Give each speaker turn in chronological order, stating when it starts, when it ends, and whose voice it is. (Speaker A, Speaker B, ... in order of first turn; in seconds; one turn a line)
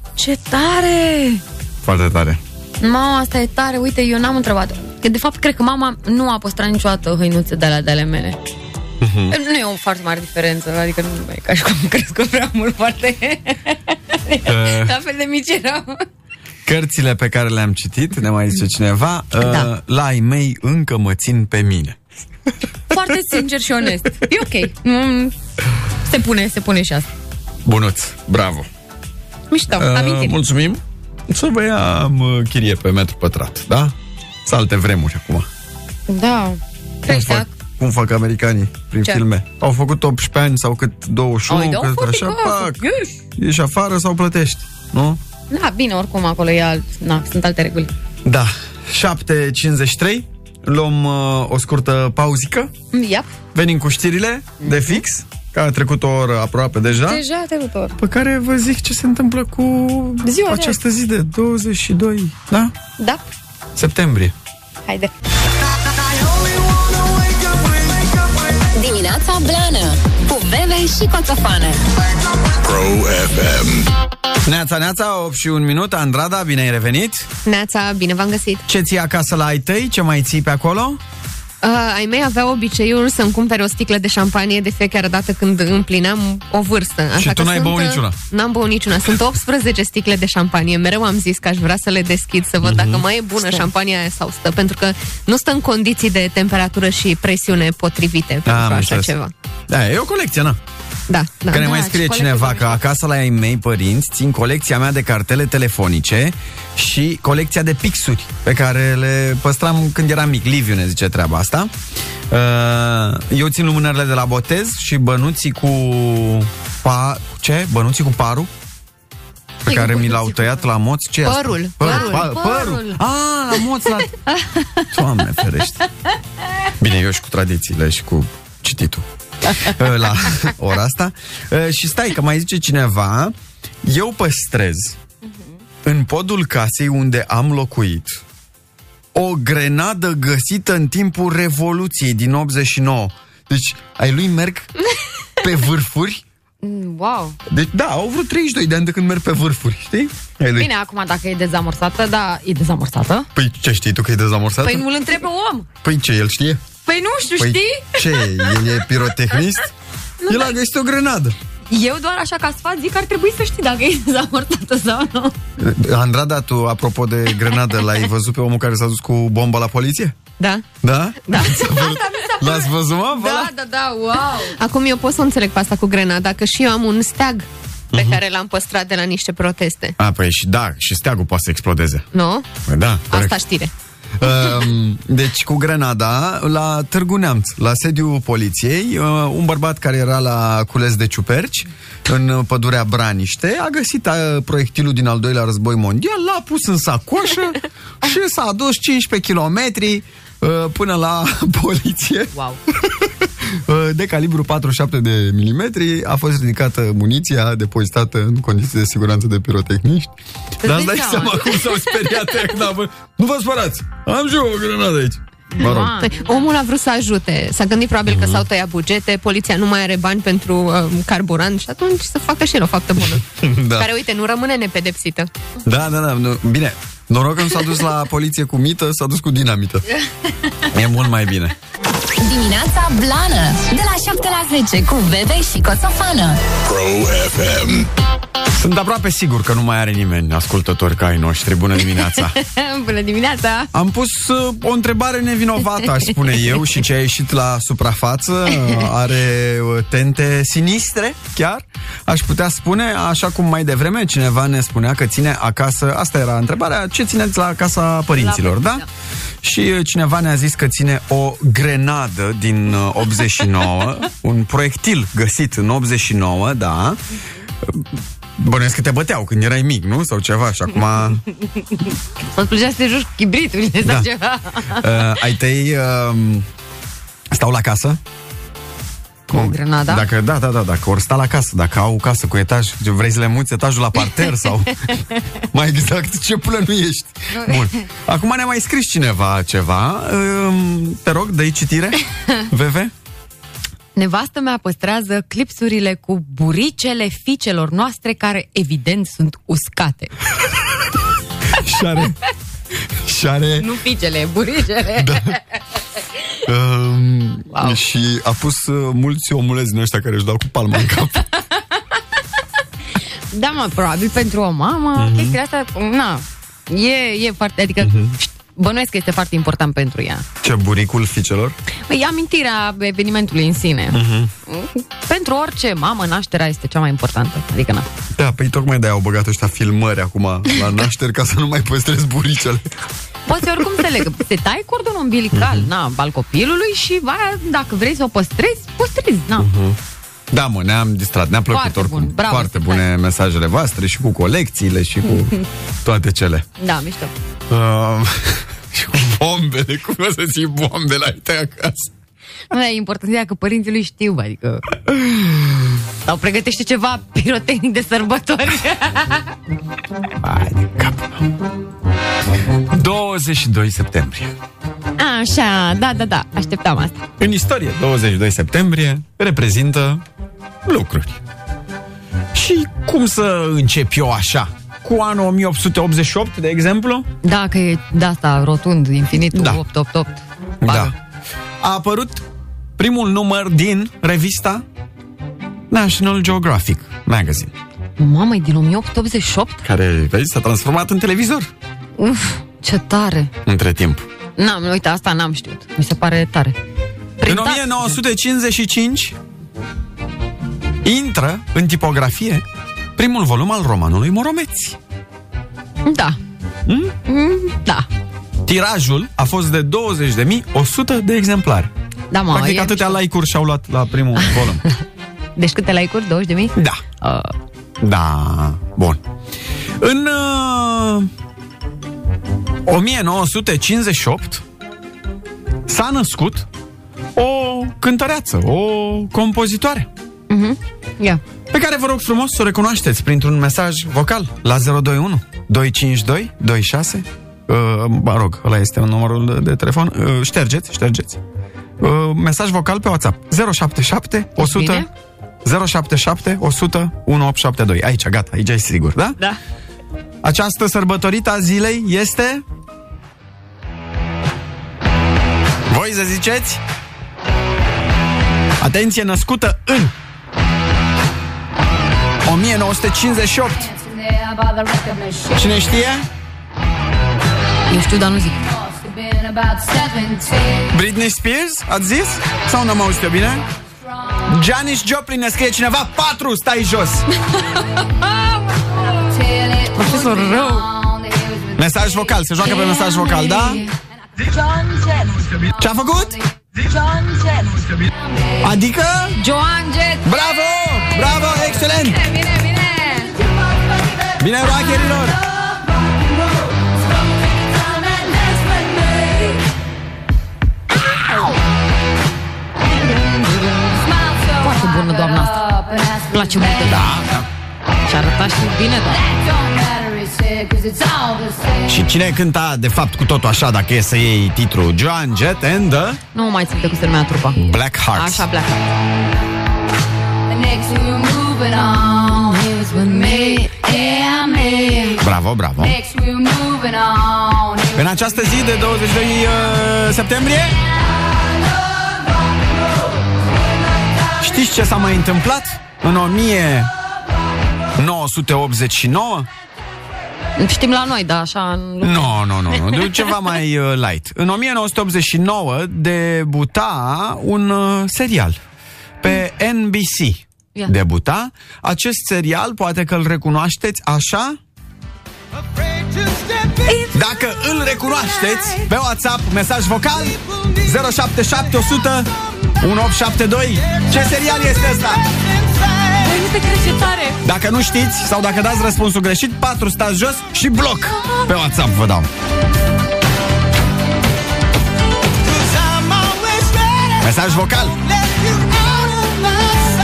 Speaker A: 0.2-1.4
Speaker B: 1.8-2.4
Speaker A: 2.8-8.4
Speaker B: 9.0-9.4
Speaker A: 9.3-16.0
Speaker B: 14.4-14.9
Speaker B: 16.6-22.0
Speaker A: 19.4-19.7
Speaker A: 22.9-25.3
Speaker A: 26.1-27.1
Speaker B: 27.6-28.7
Speaker A: 29.5-30.4
Speaker B: 29.7-35.5
Speaker A: 36.1-37.5
Speaker B: 37.1-42.8
Speaker A: 41.5-43.2
Speaker B: 43.4-45.2
Speaker A: 45.5-47.9
Speaker B: 48.2-52.7
Speaker A: 52.9-53.3
Speaker B: 53.5-57.2
Speaker A: 54.6-55.0
Speaker A: 56.9-58.0
Speaker B: 58.0-62.7
Speaker A: 60.2-60.8
Speaker A: 63.0-63.2
Speaker B: 63.8-64.3
Speaker A: 64.9-65.1
Speaker C: 68.8-71.8
Speaker D: 72.6-73.9
Speaker B: 74.5-77.3
Speaker E: 77.5-78.6
Speaker B: 78.7-81.0
Speaker E: 81.6-99.3
Speaker B: 87.2-88.2
Speaker B: 92.6-93.0
Speaker B: 98.5-99.1
Speaker B: 99.7-100.6
Speaker E: 101.1-102.7
Speaker B: 101.5-111.7
Speaker A: 101.6-102.0
Speaker B: 112.3-118.5
Speaker B: 119.6-124.1
Speaker A: 119.7-120.5
Speaker E: 121.2-122.3
Speaker A: 121.8-123.0
Speaker A: 124.3-124.9
Speaker B: 124.9-125.8
Speaker B: 126.8-135.0
Speaker B: 135.8-138.2
Speaker B: 139.1-144.7
Speaker B: 145.4-146.2
Speaker A: 146.6-147.4
Speaker B: 147.5-150.7
Speaker A: 150.6-153.3
Speaker B: 153.3-154.9
Speaker A: 154.6-155.7
Speaker B: 155.8-156.6
Speaker A: 156.9-158.7
Speaker B: 157.4-159.7
Speaker A: 160.2-160.6
Speaker B: 160.3-161.4
Speaker A: 161.7-165.3
Speaker B: 165.6-170.2
Speaker E: 170.4-170.7
Speaker B: 170.8-173.5
Speaker A: 171.3-174.6
Speaker E: 174.6-180.0
Speaker B: 177.9-178.2
Speaker B: 180.0-182.1
Speaker E: 182.1-182.5
Speaker B: 182.7-183.4
Speaker E: 183.1-183.7
Speaker B: 184.2-215.9
Speaker A: 202.3-202.6
Speaker A: 210.6-212.1
Speaker A: 215.5-216.4
Speaker E: 215.7-225.3
Speaker B: 218.1-218.5
Speaker B: 223.4-223.9
Speaker B: 225.7-229.9
Speaker B: 230.7-231.6
Speaker C: 232.2-236.4
Speaker D: 236.7-237.9
Speaker B: 238.5-242.4
Speaker A: 241.9-243.7
Speaker B: 243.7-258.9
Speaker A: 258.1-258.9
Speaker B: 259.4-267.0
Speaker B: 268.4-271.2
Speaker A: 272.3-275.1
Speaker B: 273.8-274.1
Speaker B: 274.7-276.5
Speaker B: 277.3-278.0
Speaker B: 279.3-292.9
Speaker A: 279.3-280.1
Speaker A: 287.3-287.8
Speaker A: 294.0-300.1
Speaker B: 301.5-302.2
Speaker B: 303.0-303.7
Speaker A: 303.6-305.4
Speaker B: 305.0-305.4
Speaker B: 306.5-311.3
Speaker A: 307.5-307.8
Speaker A: 313.3-320.3
Speaker B: 315.0-315.4
Speaker B: 317.8-318.2
Speaker B: 320.4-321.6
Speaker A: 321.9-327.9
Speaker B: 323.9-324.3
Speaker B: 328.1-332.7
Speaker A: 333.3-339.5
Speaker B: 335.3-335.7
Speaker B: 339.4-339.8
Speaker B: 340.3-346.5
Speaker A: 341.5-342.9
Speaker A: 346.6-347.1
Speaker B: 347.5-351.9
Speaker A: 352.5-354.6
Speaker B: 354.9-355.4
Speaker A: 356.1-359.3
Speaker B: 360.2-361.3
Speaker B: 362.7-364.4
Speaker A: 365.0-367.0
Speaker B: 367.2-370.0
Speaker B: 370.6-371.2
Speaker B: 372.3-377.1
Speaker A: 377.2-380.9
Speaker B: 379.3-379.6
Speaker B: 380.6-380.9
Speaker B: 381.6-382.2
Speaker B: 382.8-384.6
Speaker B: 385.7-387.5
Speaker A: 388.0-389.6
Speaker B: 389.6-391.5
Speaker A: 392.0-393.3
Speaker B: 393.4-394.1
Speaker A: 394.4-396.6
Speaker A: 397.2-398.0
Speaker B: 397.2-399.2
Speaker B: 400.8-404.8
Speaker A: 405.9-406.2
Speaker B: 406.7-407.0
Speaker A: 407.1-407.9
Speaker B: 408.4-411.7
Speaker A: 412.1-413.0
Speaker B: 412.3-414.6
Speaker A: 415.4-417.3
Speaker B: 416.6-416.8
Speaker B: 417.8-419.0
Speaker B: 419.8-421.1
Speaker B: 422.6-424.4
Speaker B: 425.7-426.5
Speaker B: 427.2-429.9
Speaker A: 430.3-431.2
Speaker B: 431.5-441.2
Speaker B: 441.8-444.9
Speaker A: 444.4-444.9
Speaker B: 445.4-449.2
Speaker B: 450.2-452.4
Speaker B: 455.7-456.6
Speaker B: 458.6-459.9
Speaker B: 462.2-463.7
Speaker B: 465.3-466.1
Speaker A: 467.7-468.5
Speaker A: 469.6-470.4
Speaker B: 470.7-473.5
Speaker B: 474.2-477.1
Speaker A: 477.3-480.8
Speaker B: 479.8-480.4
Speaker B: 481.6-483.6
Speaker A: 482.4-483.7
Speaker B: 485.5-486.2
Speaker B: 488.4-489.2
Speaker A: 489.2-490.1
Speaker B: 490.0-492.0
Speaker A: 491.8-493.2
Speaker B: 494.2-495.3
Speaker A: 504.1-506.9
Speaker B: 506.6-507.3
Speaker A: 507.9-509.2
Speaker B: 511.6-516.0
Speaker A: 516.1-518.7
Speaker B: 517.4-518.3
Speaker A: 520.4-525.0
Speaker B: 525.0-525.8
Speaker A: 526.0-527.5
Speaker B: 527.7-530.6
Speaker B: 534.2-536.7
Speaker B: 537.8-539.3
Speaker A: 540.4-543.1
Speaker B: 541.8-548.4
Speaker B: 549.0-554.4
Speaker A: 556.6-557.0
Speaker B: 556.9-565.1
Speaker A: 558.2-558.7
Speaker A: 566.0-567.2
Speaker B: 567.2-572.1
Speaker A: 571.0-571.3
Speaker B: 577.0-577.8